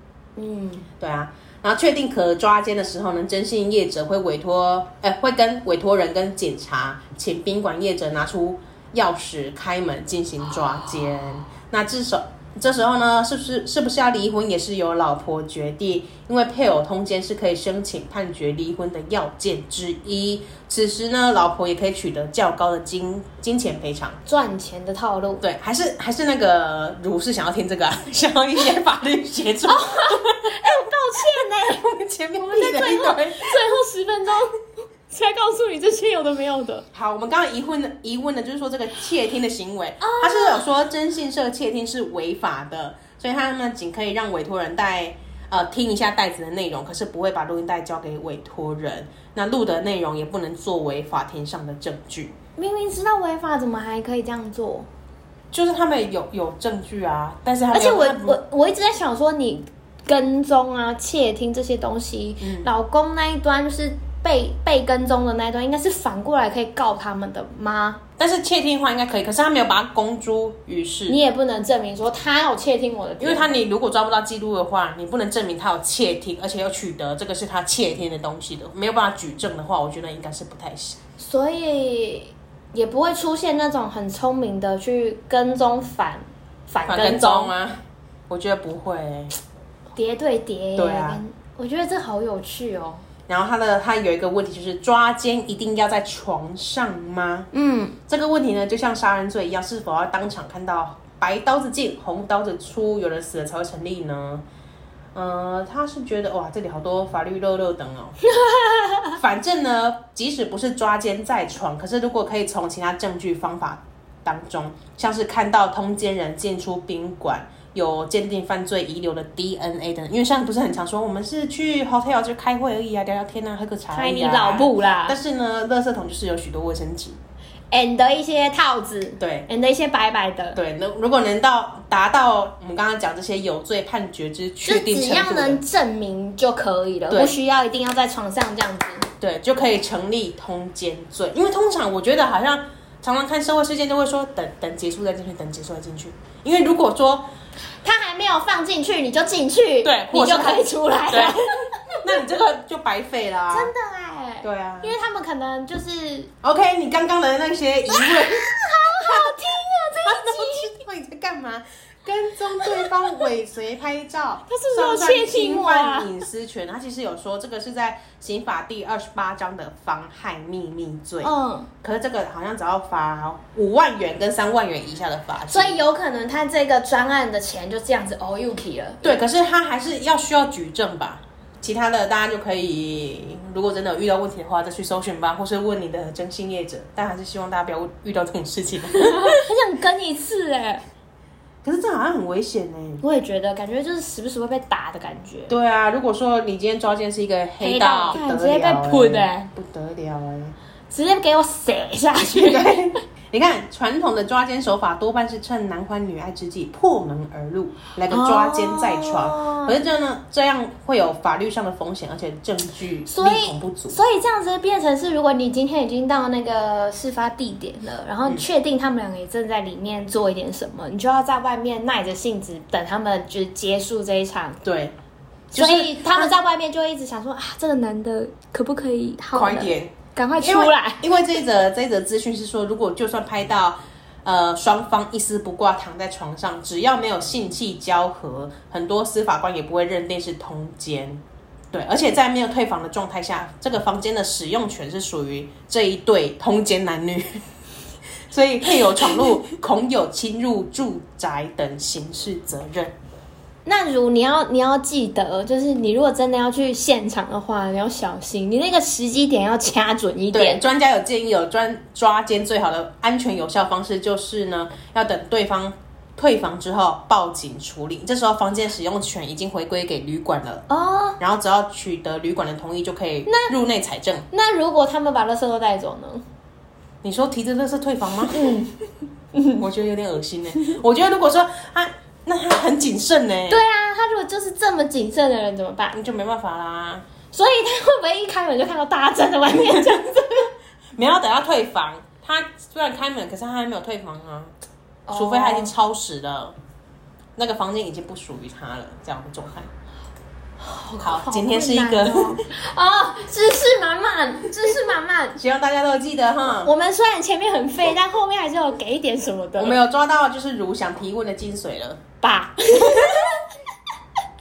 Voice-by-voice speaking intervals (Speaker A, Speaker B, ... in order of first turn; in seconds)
Speaker A: 0.4-0.9, 24.3-25.4, 29.7-31.9, 32.5-36.9, 40.0-40.6, 52.6-54.9, 57.7-68.0, 71.1-73.5, 81.2-87.5, 90.0-93.0, 97.5-98.0, 108.3-109.2, 123.9-125.2, 127.7-130.6, 134.7-139.1, 147.8-152.1, 153.5-156.3, 157.9-160.8, 164.5-166.1, 171.2-171.7, 175.5-179.2, 188.9-190.8, 193.0-195.5, 197.6-199.5, 200.9-203.0, 208.1-209.8, 213.1-224.6, 225.5-231.1, 253.7-260.6, 270.7-271.2, 273.3-273.5, 274.3-276.2, 278.3-278.7, 279.3-279.6, 283.5-286.0, 287.3-290.5, 295.1-295.7, 300.6-305.4, 306.6-309.8, 312.2-313.5
Speaker B: 1.0-24.2, 25.4-30.6, 31.4-33.6, 36.9-52.4, 55.5-58.4, 62.4-62.7, 68.2-71.2, 73.2-81.0, 86.9-87.8, 88.3-89.3, 90.8-91.2, 93.3-97.5, 98.1-104.4, 105.1-108.2, 109.1-127.2, 129.2-129.5, 130.6-135.6, 139.2-147.3, 149.8-153.7, 154.4-154.9, 156.4-171.3, 171.8-175.8, 179.0-189.4, 191.6-193.0, 195.5-200.5, 202.3-214.0, 224.6-224.9, 225.5-226.3, 229.3-247.4, 248.3-252.9, 260.3-270.6, 271.2-274.3, 277.0-278.6, 279.6-283.6, 285.9-287.1, 289.6-290.0, 290.9-294.5, 295.1-296.5, 297.4-299.7, 301.0-302.4, 305.4-306.7, 309.6-312.0, 312.9-313.3